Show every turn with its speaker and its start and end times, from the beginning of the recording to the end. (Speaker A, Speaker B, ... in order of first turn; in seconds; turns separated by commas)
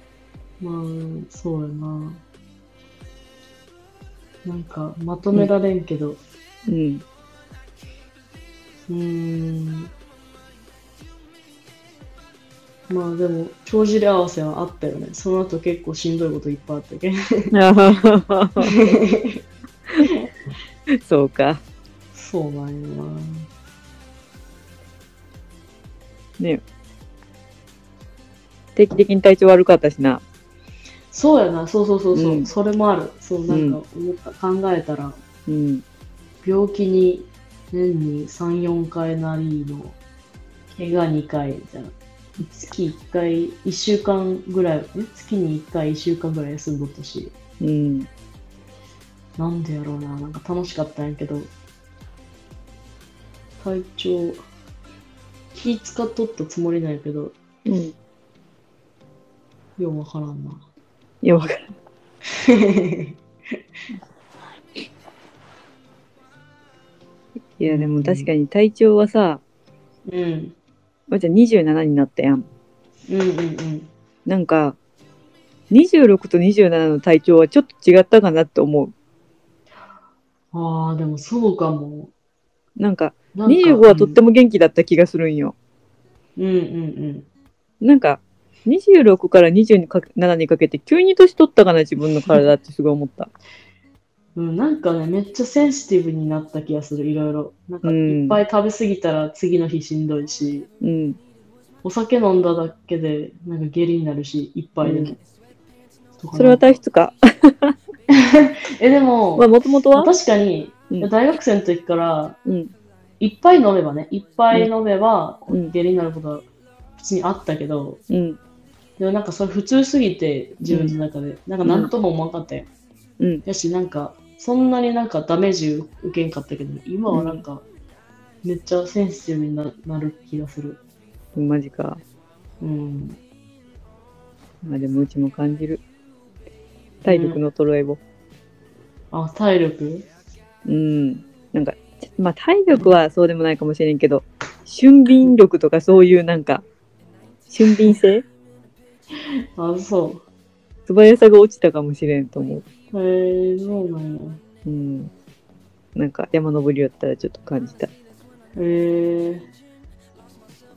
Speaker A: 0.6-2.2, Speaker A: 4.4-6.2, Speaker B: 6.7-7.0, Speaker A: 8.9-9.9, Speaker A: 12.9-17.5, Speaker B: 17.5-18.8, Speaker A: 18.6-19.4, Speaker A: 20.0-20.3, Speaker B: 20.9-21.6, Speaker A: 22.1-23.5, Speaker B: 28.8-30.2, Speaker A: 31.1-35.2, Speaker B: 32.1-32.5, Speaker B: 33.5-33.8, Speaker B: 35.5-35.8, Speaker A: 36.4-40.0, Speaker A: 40.7-47.3, Speaker B: 47.6-48.1, Speaker A: 49.4-51.5, Speaker A: 53.6-54.4, Speaker A: 55.5-57.4, Speaker B: 57.6-57.9, Speaker A: 59.8-60.6, Speaker B: 61.2-61.7, Speaker A: 62.3-63.6, Speaker B: 67.6-69.4, Speaker A: 67.7-68.3, Speaker A: 70.1-70.5, Speaker B: 71.1-72.5, Speaker A: 73.1-73.9, Speaker B: 74.2-74.8, Speaker B: 75.7-78.9, Speaker A: 80.5-82.1, Speaker B: 82.8-85.5, Speaker A: 83.3-84.2, Speaker A: 86.3-87.3, Speaker B: 87.8-93.3, Speaker A: 94.3-100.7, Speaker B: 97.8-98.4, Speaker B: 100.8-101.2, Speaker A: 101.8-105.2, Speaker B: 104.8-105.2, Speaker A: 106.2-106.8, Speaker B: 106.3-107.7, Speaker A: 108.1-112.4, Speaker B: 109.4-110.1, Speaker B: 112.5-112.7, Speaker A: 113.2-116.5, Speaker A: 117.0-118.0, Speaker B: 118.1-118.4, Speaker A: 119.0-122.7, Speaker B: 120.6-120.9, Speaker B: 121.6-121.9, Speaker A: 123.4-127.6, Speaker B: 127.1-127.4, Speaker A: 128.4-130.8, Speaker B: 131.3-132.0, Speaker A: 132.6-133.2, Speaker B: 134.6-135.8, Speaker A: 137.0-137.4, Speaker B: 137.0-138.0, Speaker A: 139.1-140.1, Speaker B: 140.7-146.6, Speaker B: 147.5-148.2, Speaker A: 149.6-150.2, Speaker B: 150.9-152.6, Speaker A: 152.9-154.4, Speaker B: 154.7-155.1, Speaker B: 155.9-157.9, Speaker A: 158.6-159.4